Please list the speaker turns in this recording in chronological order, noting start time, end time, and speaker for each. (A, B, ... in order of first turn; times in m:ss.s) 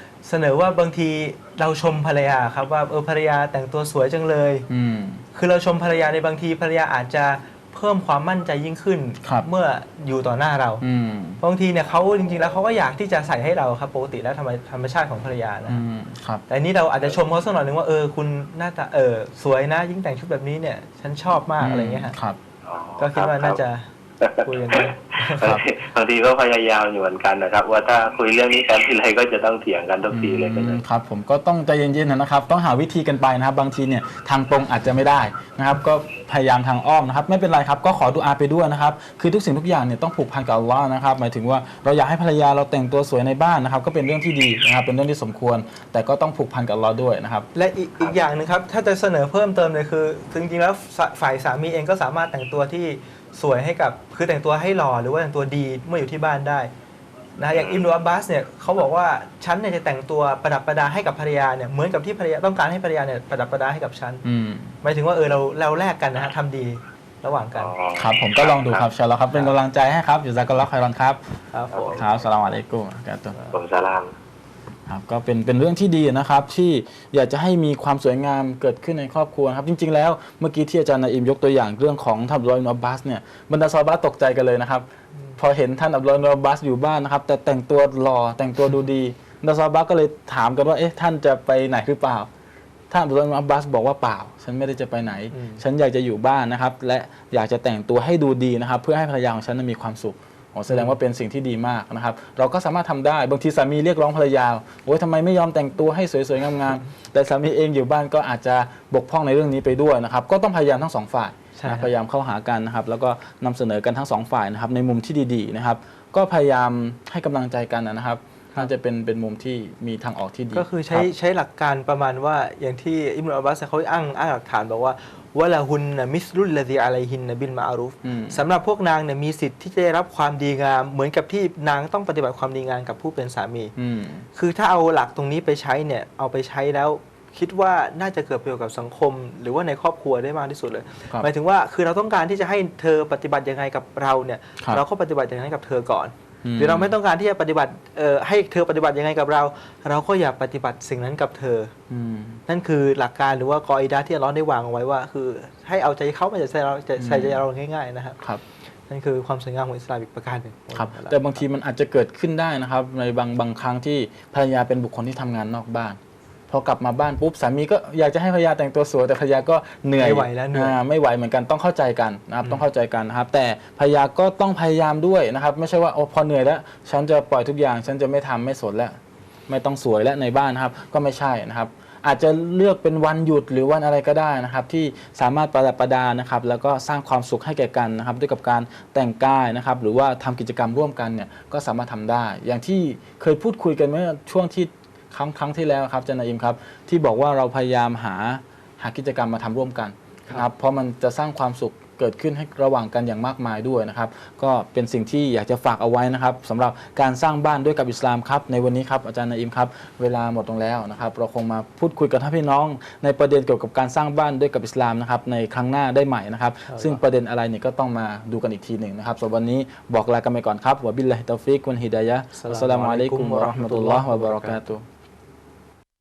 0:00.2-0:04.7 A
0:04.7-0:05.2 B
0:05.3-0:10.8 A
0:10.8-0:11.4 B
0:11.4-0:15.8 A
0:15.7-0:16.4 B
0:16.5-0:22.1 A
0:21.6-0:22.4 B
0:22.6-0:23.6 C
0:23.0-0:23.9 A
0:24.2-0:30.8 C
0:24.4-0:25.5 A
0:25.4-0:25.6 B
0:30.1-0:47.5 B
0:47.6-0:56.7 A
0:57.4-1:04.2 A
0:57.5-0:57.8 C
1:04.2-1:04.8 B
1:04.8-1:07.7 A
1:07.6-1:08.8 C
1:08.0-1:11.2 B
1:11.5-1:12.0 A
1:11.8-1:12.0 C
1:11.9-1:13.4 B
1:13.5-1:14.1 C
1:14.9-1:24.8 B
1:25.4-1:32.3 B
1:32.9-2:01.1 B
1:35.3-1:35.6 A
1:51.6-1:51.9 A
2:00.5-2:13.7 A
2:08.0-2:08.4 B
2:13.8-2:14.3 B
2:14.4-2:31.7 A
2:26.4-2:27.0 B
2:31.9-2:32.4 B
2:32.5-2:38.2 A
2:37.0-2:37.4 B
2:38.9-2:41.4 A
2:40.7-2:46.0 B
2:46.5-2:59.0 B
2:50.0-2:50.8 A
2:59.5-3:44.8 B
3:36.7-3:37.0 A
3:42.3-3:44.6 A